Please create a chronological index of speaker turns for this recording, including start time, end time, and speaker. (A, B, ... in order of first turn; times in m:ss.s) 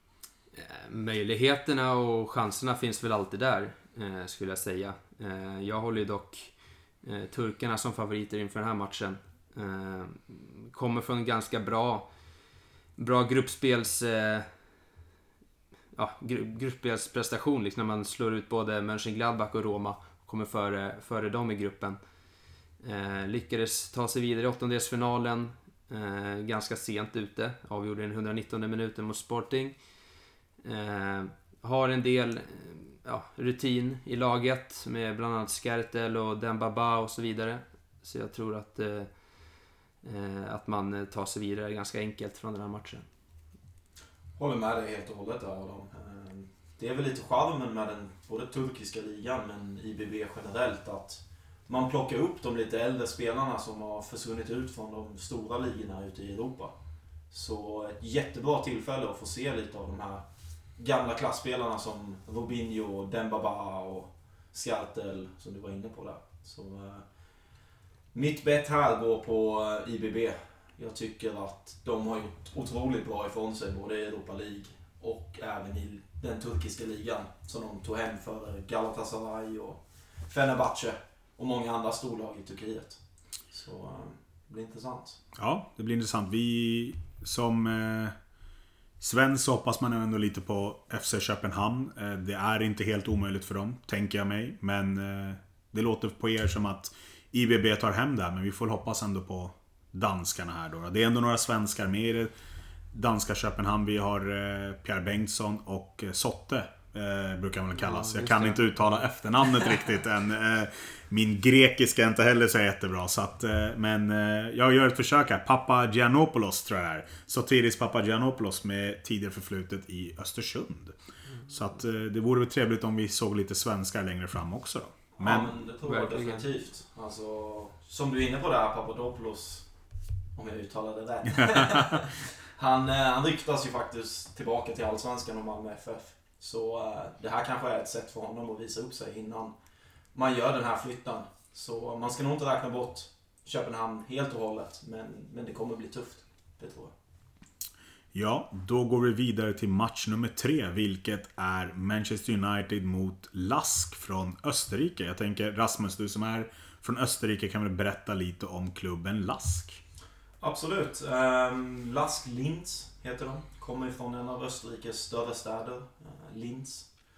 0:00.5-0:12.1 A
0:13.0-0:14.6 A
0:16.0-0:22.0 A
0:22.8-0:29.8 A
0:30.6-0:43.1 A
0:44.4-0:56.7 B
0:57.3-1:00.2 B
1:00.8-1:07.0 B
1:08.1-1:25.2 B
1:25.4-1:28.2 C
1:29.0-1:42.3 C
1:42.9-2:01.0 C
1:47.8-1:48.6 A
2:01.5-2:05.5 C
2:05.2-2:09.7 B
2:05.8-2:06.5 A
2:10.4-2:19.5 B
2:11.5-2:11.8 C
2:20.2-2:26.9 B
2:28.1-2:39.8 C
2:40.4-2:46.9 B